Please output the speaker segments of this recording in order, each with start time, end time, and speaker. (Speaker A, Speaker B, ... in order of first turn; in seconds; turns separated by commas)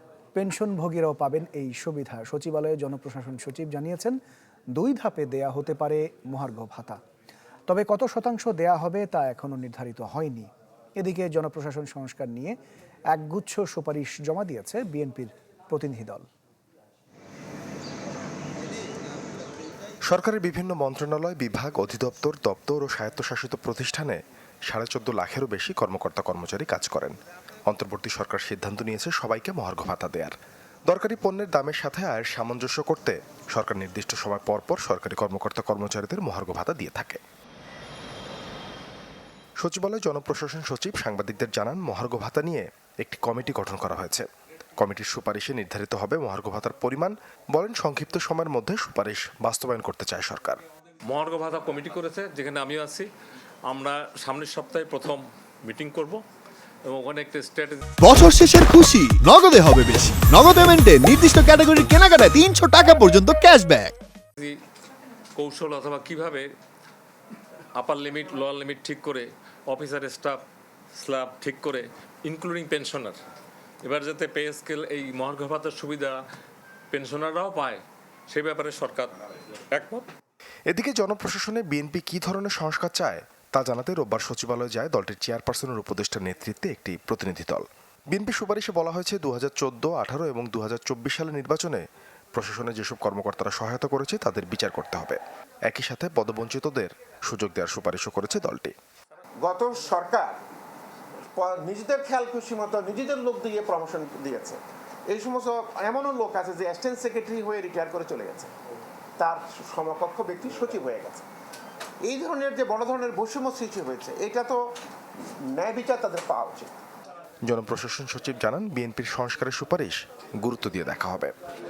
Speaker A: 0.3-4.2, Speaker A: 4.7-7.0, Speaker A: 7.7-12.6, Speaker A: 13.1-16.3, Speaker B: 20.1-27.1, Speaker B: 27.7-30.4, Speaker B: 30.9-37.2, Speaker B: 39.6-50.6, Speaker C: 51.1-53.1, Speaker C: 53.7-56.2, Speaker C: 56.9-57.8, Speaker D: 58.0-64.0, Speaker C: 65.4-66.5, Speaker C: 67.8-70.4, Speaker C: 71.0-73.2, Speaker C: 73.8-76.2, Speaker C: 76.9-80.1, Speaker B: 80.7-98.7, Speaker E: 99.4-100.4, Speaker E: 101.4-108.5, Speaker E: 109.2-111.3, Speaker E: 112.0-114.6, Speaker E: 115.5-116.8, Speaker B: 117.5-121.3